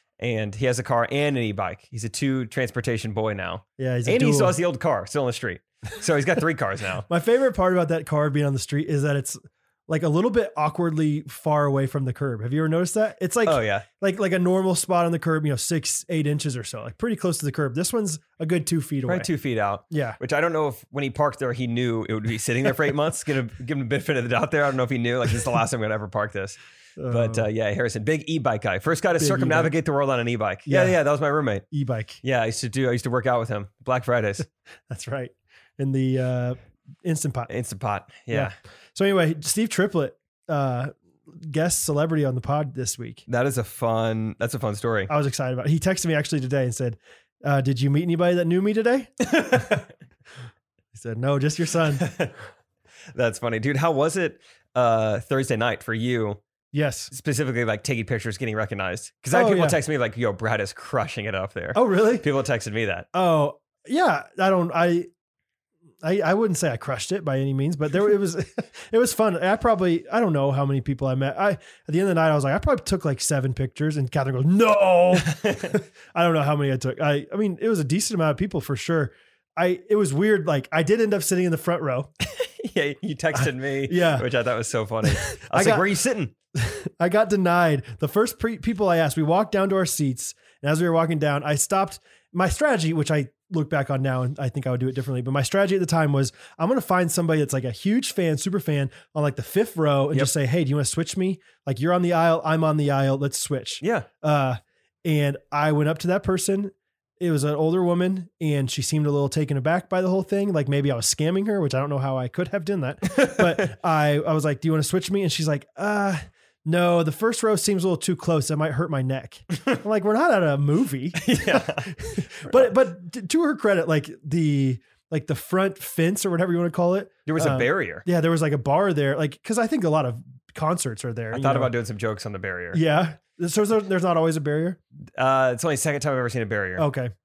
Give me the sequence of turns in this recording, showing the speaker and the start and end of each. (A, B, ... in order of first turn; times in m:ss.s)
0:00.2-0:07.1 A
0:03.8-0:04.6 B
0:07.1-0:19.3 B
0:13.4-0:13.9 A
0:19.1-0:31.6 A
0:19.9-0:20.2 B
0:27.0-0:27.5 B
0:29.2-0:29.7 B
0:30.7-0:31.0 B
0:31.7-0:32.2 B
0:32.2-0:34.5 A
0:34.9-0:37.5 B
0:37.5-0:38.5 A
0:38.3-0:43.2 B
0:43.3-0:45.1 A
0:45.1-0:49.1 B
0:49.3-0:49.8 A
0:50.9-0:52.1 B
0:52.0-0:52.3 A
0:53.1-0:56.4 A
0:56.7-0:57.1 B
0:57.1-1:03.1 A
0:59.3-0:59.8 B
1:01.7-1:02.3 B
1:03.1-1:05.1 B
1:06.0-1:22.1 B
1:15.2-1:15.8 A
1:22.3-1:26.3 A
1:23.4-1:24.3 B
1:25.1-1:25.9 B
1:26.6-2:11.7 B
1:43.8-1:44.1 A
1:53.2-1:53.7 A
2:01.2-2:02.7 A
2:07.3-2:08.0 A
2:11.3-2:12.8 A
2:12.7-2:14.8 B
2:15.2-2:16.9 A
2:16.8-2:17.1 B